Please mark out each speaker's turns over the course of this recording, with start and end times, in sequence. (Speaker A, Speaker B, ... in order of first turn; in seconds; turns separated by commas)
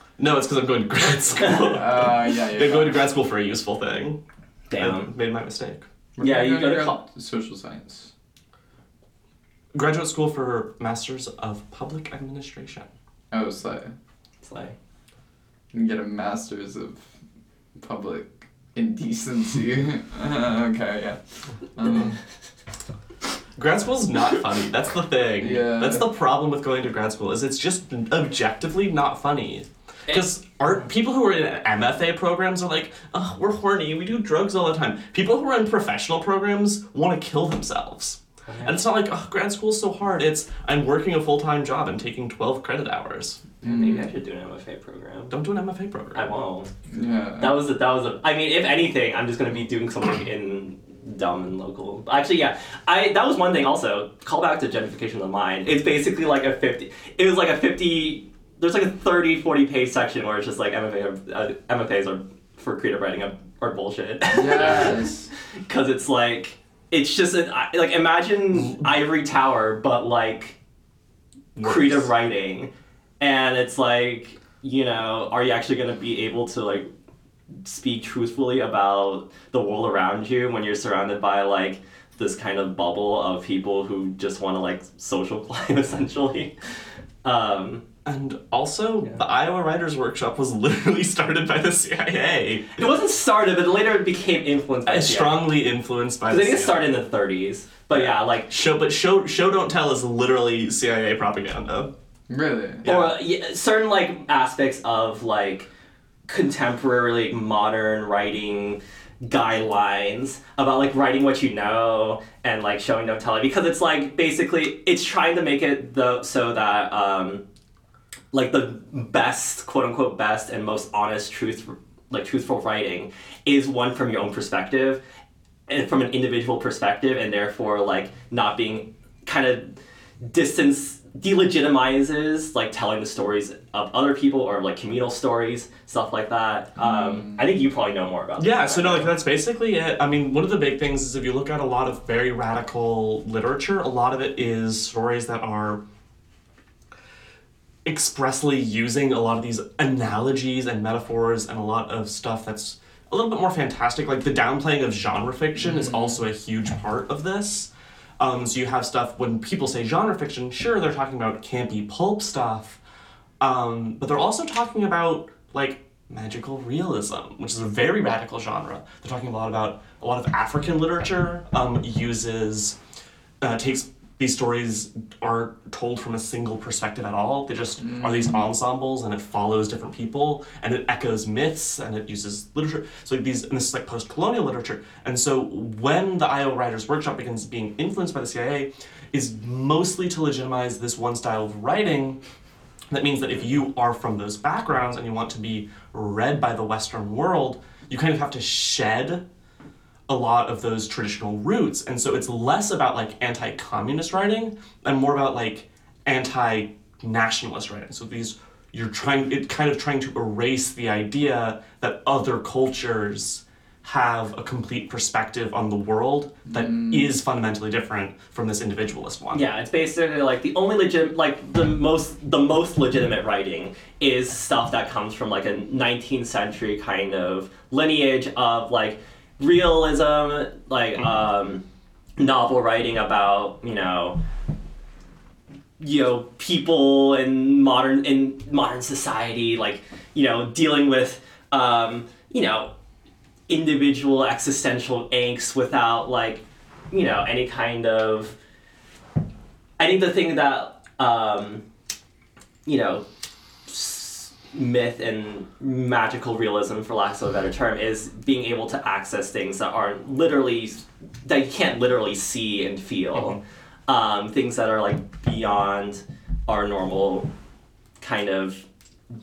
Speaker A: 0.2-4.2, Speaker B: 1.6-3.1, Speaker C: 4.7-5.1, Speaker A: 4.8-5.8, Speaker B: 6.2-8.1, Speaker C: 6.2-7.0, Speaker A: 9.7-12.9, Speaker B: 13.3-13.9, Speaker C: 14.4-14.8, Speaker B: 15.7-17.0, Speaker B: 17.8-21.2, Speaker B: 21.7-22.2, Speaker A: 23.6-43.4, Speaker B: 25.4-26.1, Speaker C: 38.5-38.8, Speaker C: 43.6-45.3, Speaker B: 43.6-44.1, Speaker A: 45.3-46.3, Speaker C: 46.1-46.7, Speaker B: 46.9-47.6, Speaker C: 47.4-65.0, Speaker B: 64.3-65.3, Speaker C: 65.7-70.6, Speaker A: 71.5-72.1, Speaker C: 71.6-76.9, Speaker C: 77.6-86.5, Speaker C: 87.2-87.8, Speaker A: 88.0-93.0, Speaker C: 92.8-95.5, Speaker A: 94.9-96.9, Speaker C: 96.3-98.5, Speaker A: 97.9-101.9, Speaker B: 102.3-102.8, Speaker A: 102.8-103.1, Speaker C: 102.8-105.7, Speaker C: 106.3-117.4, Speaker C: 118.3-125.0, Speaker C: 125.7-139.1, Speaker B: 137.0-137.4, Speaker A: 138.4-145.8, Speaker A: 147.8-162.8, Speaker B: 155.8-156.1, Speaker A: 163.4-172.8, Speaker A: 173.4-192.2, Speaker B: 177.9-178.1, Speaker A: 192.9-199.2, Speaker A: 200.1-219.5, Speaker B: 216.5-217.1, Speaker C: 219.3-231.6, Speaker C: 232.2-234.2, Speaker C: 235.8-242.7, Speaker C: 243.5-248.3, Speaker C: 249.8-251.6, Speaker C: 252.6-253.0, Speaker C: 253.7-267.3, Speaker C: 268.0-268.6